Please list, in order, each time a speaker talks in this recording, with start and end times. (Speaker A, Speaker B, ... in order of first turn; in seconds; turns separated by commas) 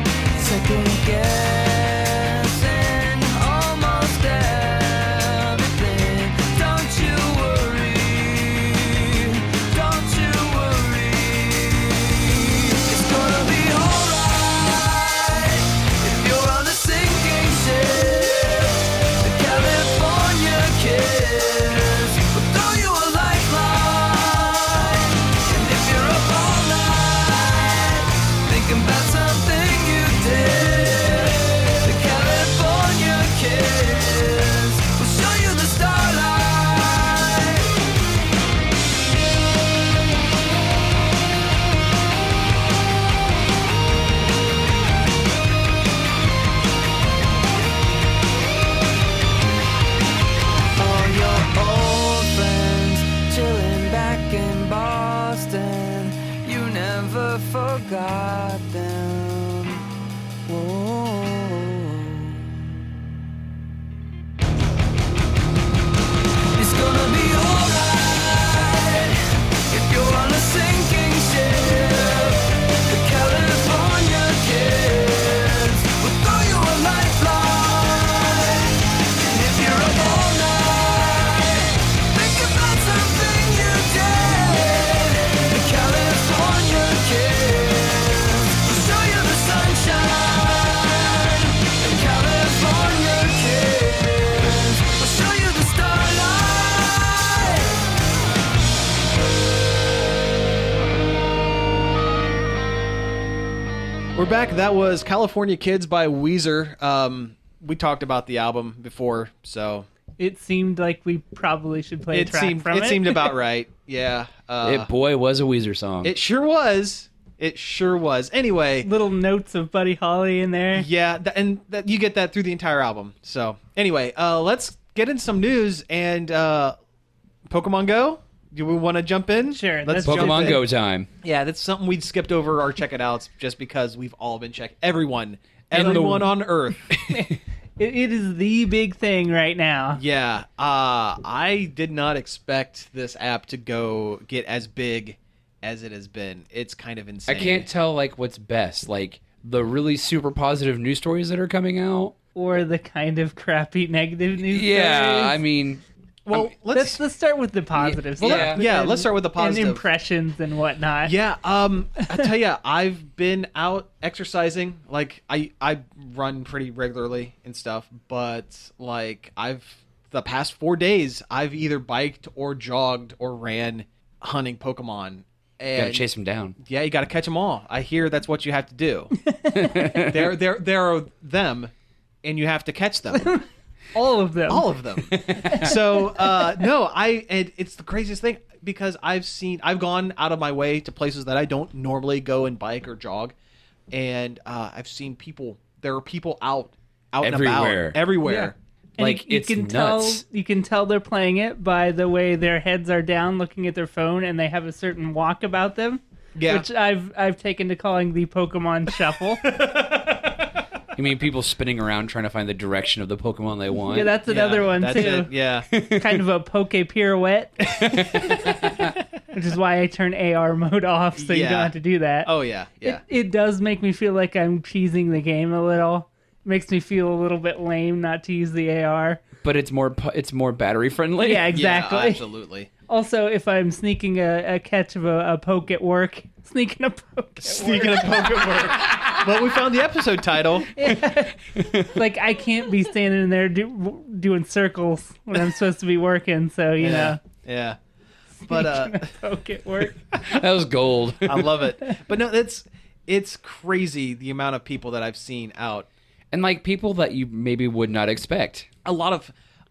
Speaker A: 0.3-37.8, Speaker A: 50.8-59.8, Speaker A: 60.5-62.6, Speaker A: 66.5-97.8, Speaker B: 104.1-109.9, Speaker C: 110.2-113.3, Speaker B: 112.1-114.9, Speaker D: 114.6-116.1, Speaker B: 116.0-118.9, Speaker C: 118.8-120.9, Speaker B: 120.7-126.8, Speaker B: 127.5-130.6, Speaker C: 129.5-130.6, Speaker D: 130.0-131.1, Speaker B: 131.2-137.0, Speaker C: 135.7-136.3, Speaker D: 135.7-136.2, Speaker D: 137.0-137.2, Speaker C: 137.1-140.0, Speaker B: 139.9-147.7, Speaker D: 147.3-152.1, Speaker C: 152.3-155.4, Speaker D: 154.5-156.5, Speaker B: 156.2-157.0, Speaker C: 156.7-161.1, Speaker D: 157.8-158.6, Speaker B: 158.2-159.8, Speaker B: 161.0-176.0, Speaker D: 175.7-176.6, Speaker B: 176.6-179.1, Speaker C: 179.2-179.9, Speaker D: 179.5-180.3, Speaker B: 180.0-181.7, Speaker B: 182.2-183.2, Speaker C: 183.1-184.7, Speaker B: 184.5-193.3, Speaker D: 185.1-185.7, Speaker C: 185.3-186.5, Speaker B: 193.9-198.6, Speaker D: 197.2-198.0, Speaker C: 198.2-209.6, Speaker D: 199.0-200.2, Speaker B: 206.3-206.7, Speaker B: 209.4-210.4, Speaker D: 210.9-214.2, Speaker C: 213.9-218.8, Speaker B: 214.3-215.7, Speaker D: 215.7-216.2, Speaker D: 217.8-218.5, Speaker C: 219.3-222.3, Speaker B: 221.2-221.7, Speaker B: 222.2-223.0, Speaker C: 222.8-229.2, Speaker D: 229.4-231.5, Speaker C: 231.2-232.2, Speaker B: 231.5-232.7, Speaker C: 232.9-238.6, Speaker B: 237.4-240.7, Speaker C: 240.7-247.2, Speaker D: 241.6-241.9, Speaker B: 246.8-247.8, Speaker C: 248.4-250.4, Speaker B: 248.4-249.1, Speaker D: 250.2-251.6, Speaker B: 251.2-255.8, Speaker D: 256.3-258.7, Speaker B: 258.8-259.3